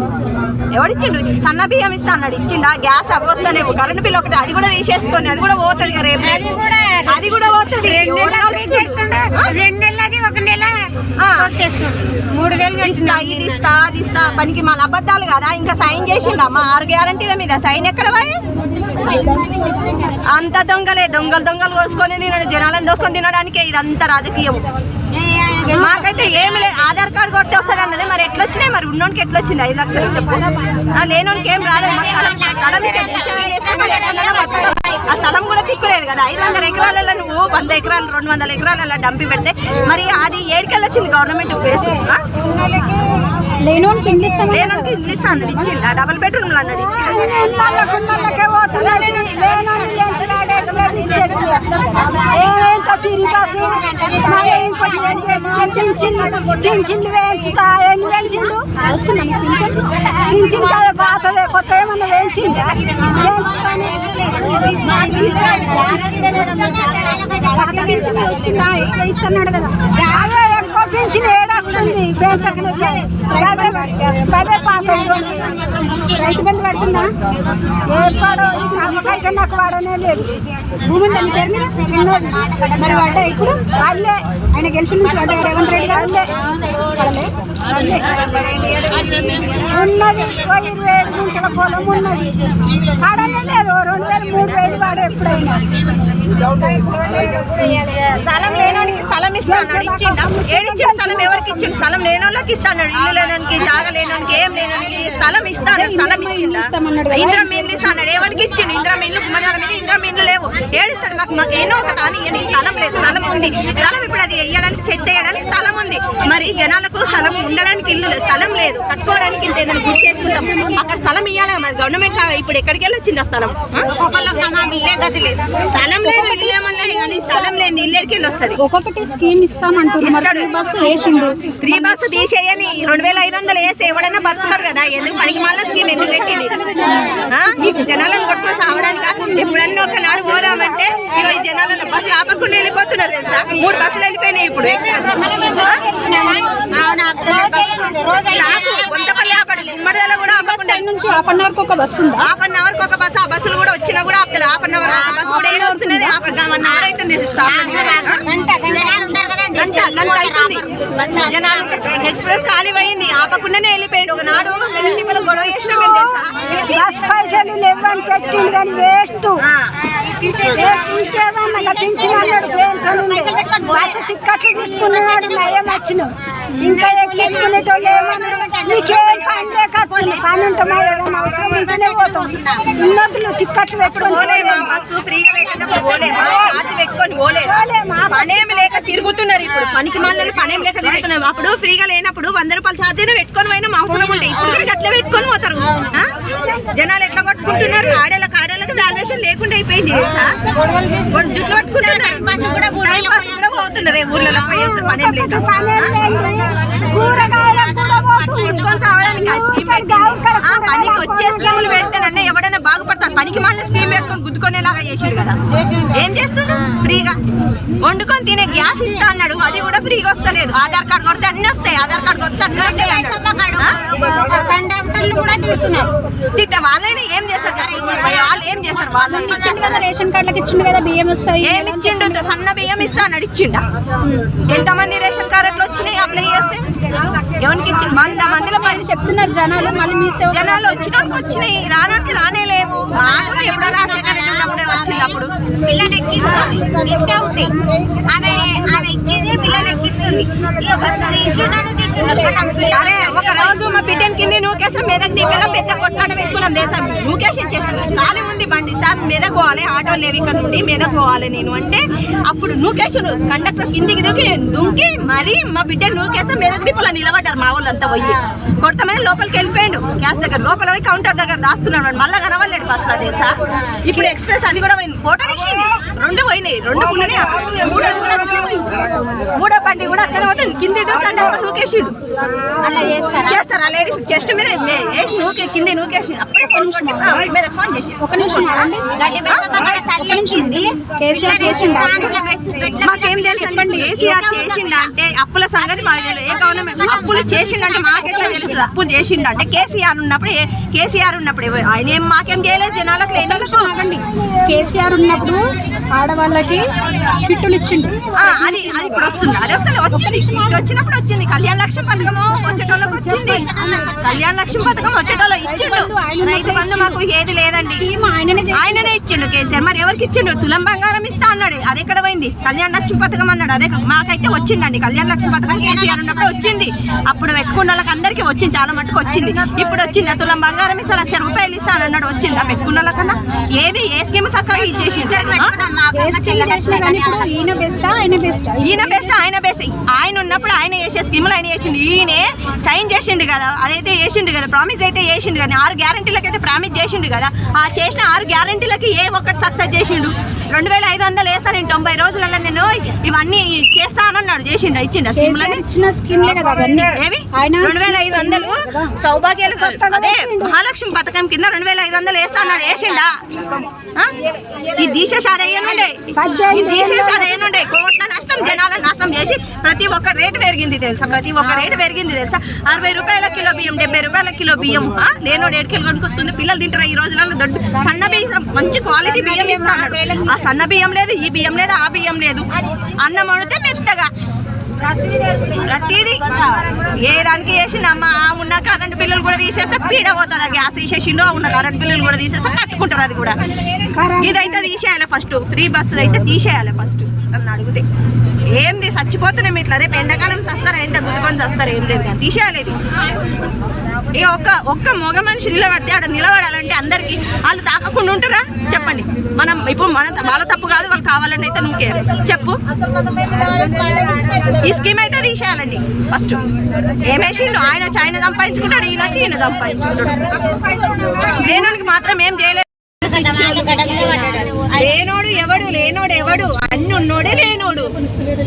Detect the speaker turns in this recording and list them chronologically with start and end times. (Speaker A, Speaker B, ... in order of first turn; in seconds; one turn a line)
Speaker A: 0.7-9.6
Speaker B: 6.2-10.9
Speaker A: 11.2-11.5
Speaker B: 11.4-13.2
Speaker C: 12.3-13.5
Speaker A: 12.8-18.4
Speaker A: 20.3-24.6
Speaker C: 25.1-26.4
Speaker A: 25.7-42.2
Speaker C: 31.5-35.1
Speaker B: 42.6-42.9
Speaker B: 43.6-45.7
Speaker A: 44.5-47.5
Speaker B: 47.0-51.6
Speaker A: 48.6-52.8
Speaker B: 52.2-64.0
Speaker C: 53.2-54.7
Speaker A: 54.1-58.5
Speaker C: 63.0-68.8
Speaker A: 64.8-68.1
Speaker B: 67.5-75.5
Speaker C: 69.9-76.4
Speaker B: 76.1-77.1
Speaker B: 77.9-80.3
Speaker C: 77.9-79.4
Speaker B: 80.8-86.3
Speaker C: 81.0-83.5
Speaker B: 86.8-88.1
Speaker A: 87.9-89.8
Speaker B: 89.7-95.7
Speaker B: 96.6-98.0
Speaker A: 98.0-123.9
Speaker B: 99.5-101.8
Speaker B: 105.7-108.2
Speaker C: 123.9-125.6
Speaker A: 125.6-128.6
Speaker B: 126.0-127.5
Speaker B: 128.6-132.2
Speaker A: 130.0-130.5
Speaker A: 131.6-136.6
Speaker B: 135.9-139.3
Speaker A: 137.3-145.8
Speaker B: 144.7-146.7
Speaker C: 146.7-149.7
Speaker B: 147.3-147.8
Speaker A: 148.3-150.8
Speaker B: 150.4-152.3
Speaker A: 152.2-158.2
Speaker B: 155.0-156.2
Speaker C: 156.6-162.0
Speaker B: 158.2-159.2
Speaker A: 159.5-160.6
Speaker A: 161.2-166.8
Speaker B: 166.7-169.4
Speaker A: 169.4-169.7
Speaker C: 170.2-170.8
Speaker B: 170.4-184.7
Speaker C: 171.3-175.8
Speaker C: 176.5-182.8
Speaker A: 183.9-196.1
Speaker B: 186.0-186.6
Speaker B: 187.5-188.8
Speaker B: 194.0-194.3
Speaker A: 196.7-200.4
Speaker A: 201.1-202.2
Speaker C: 201.8-203.6
Speaker A: 202.8-205.9
Speaker B: 204.4-208.6
Speaker C: 206.7-209.4
Speaker A: 208.4-215.4
Speaker B: 209.2-211.8
Speaker A: 215.9-217.2
Speaker A: 217.8-223.8
Speaker C: 222.5-224.7
Speaker B: 224.4-225.9
Speaker A: 226.3-229.4
Speaker C: 227.4-229.9
Speaker B: 229.0-233.0
Speaker A: 231.4-233.6
Speaker A: 234.4-236.7
Speaker A: 237.4-238.9
Speaker B: 238.2-241.4
Speaker A: 240.3-245.3
Speaker C: 243.0-253.7
Speaker A: 252.7-281.9
Speaker C: 255.3-256.1
Speaker C: 282.6-283.5
Speaker A: 283.2-288.7
Speaker B: 286.4-287.2
Speaker B: 288.0-288.9
Speaker C: 288.9-294.9
Speaker A: 289.3-289.7
Speaker B: 289.6-292.2
Speaker A: 292.8-303.7
Speaker C: 295.6-298.6
Speaker B: 297.8-298.5
Speaker B: 303.2-306.7
Speaker B: 307.2-309.0
Speaker A: 308.2-313.4
Speaker B: 309.9-310.6
Speaker B: 312.0-313.9
Speaker C: 313.2-314.2
Speaker A: 314.0-317.9
Speaker B: 314.5-317.0
Speaker B: 317.6-318.9
Speaker A: 318.5-335.5
Speaker C: 325.4-326.6
Speaker C: 329.3-330.0
Speaker C: 334.8-337.3
Speaker B: 335.9-339.2
Speaker A: 338.6-355.6
Speaker B: 355.1-358.9
Speaker A: 356.9-363.1
Speaker B: 359.5-360.6
Speaker A: 363.8-364.1
Speaker C: 364.2-365.1
Speaker A: 364.8-382.5
Speaker B: 366.1-367.5
Speaker C: 378.9-380.4
Speaker A: 383.0-384.1
Speaker C: 384.8-387.0
Speaker A: 385.6-393.4
Speaker B: 393.9-394.8
Speaker A: 394.1-397.8
Speaker A: 398.5-402.8
Speaker A: 404.1-412.6
Speaker C: 412.7-414.7
Speaker A: 414.6-416.4
Speaker A: 417.0-420.2
Speaker C: 420.0-421.4
Speaker A: 421.2-427.9
Speaker C: 423.0-424.9